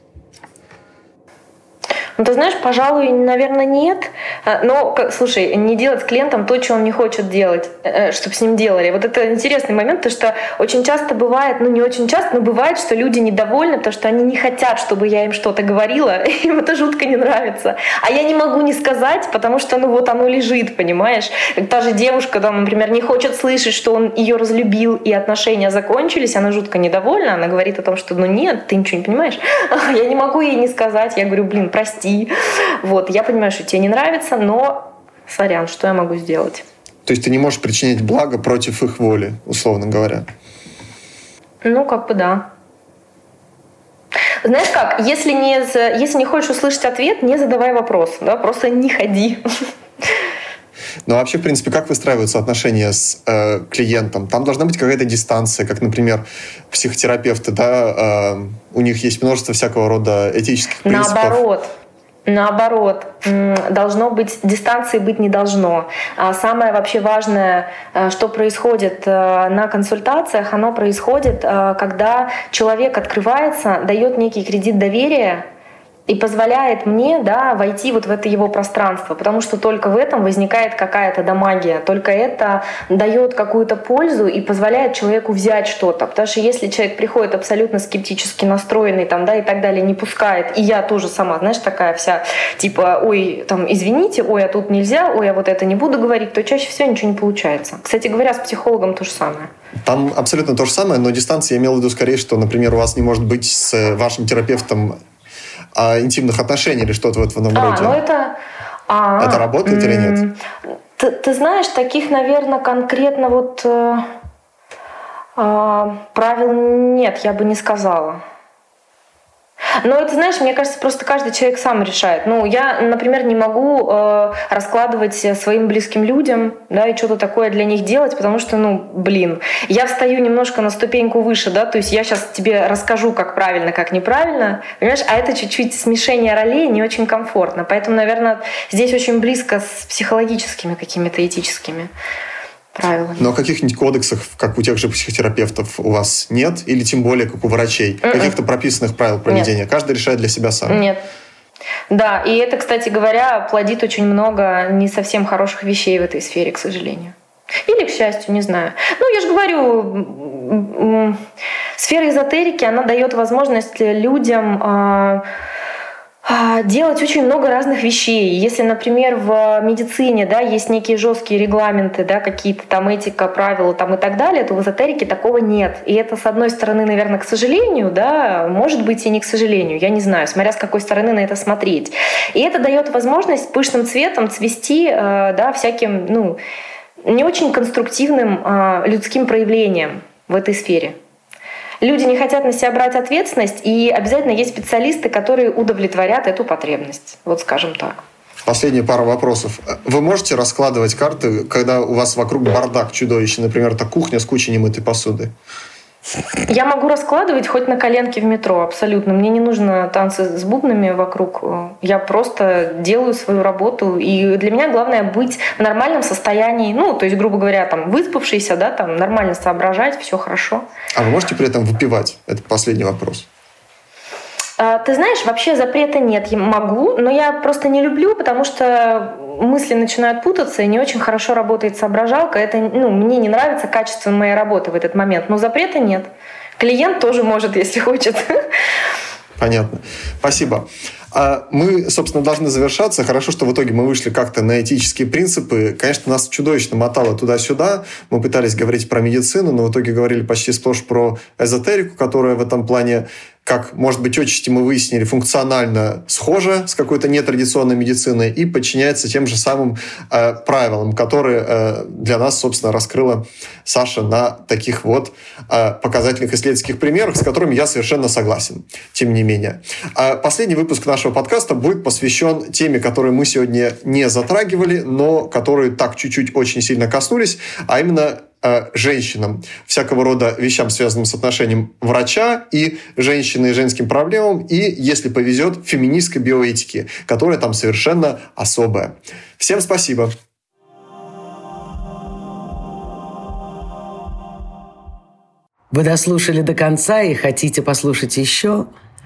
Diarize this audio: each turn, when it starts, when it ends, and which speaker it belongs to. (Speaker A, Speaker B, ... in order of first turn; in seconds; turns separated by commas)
Speaker A: 2.2-32.3, Speaker A: 32.8-36.6, Speaker B: 37.0-40.3, Speaker A: 41.6-42.5, Speaker A: 44.4-49.4, Speaker B: 51.0-61.4, Speaker A: 60.8-61.7, Speaker A: 62.2-75.5, Speaker A: 76.1-99.5, Speaker B: 99.8-105.0, Speaker B: 105.7-108.0, Speaker A: 107.5-108.3, Speaker A: 108.9-110.4, Speaker B: 109.2-110.2, Speaker A: 111.0-114.0, Speaker A: 115.3-118.2, Speaker A: 119.8-141.9, Speaker A: 142.7-143.3, Speaker B: 143.2-150.8, Speaker A: 148.1-148.3, Speaker A: 150.7-151.0, Speaker A: 151.9-157.1, Speaker A: 157.7-161.2, Speaker A: 161.8-165.2, Speaker A: 166.2-186.4, Speaker A: 187.1-190.9, Speaker A: 191.8-198.0, Speaker B: 198.4-205.3, Speaker A: 206.5-220.6, Speaker B: 220.9-223.2, Speaker A: 224.6-238.3, Speaker B: 239.4-290.1, Speaker C: 295.7-298.7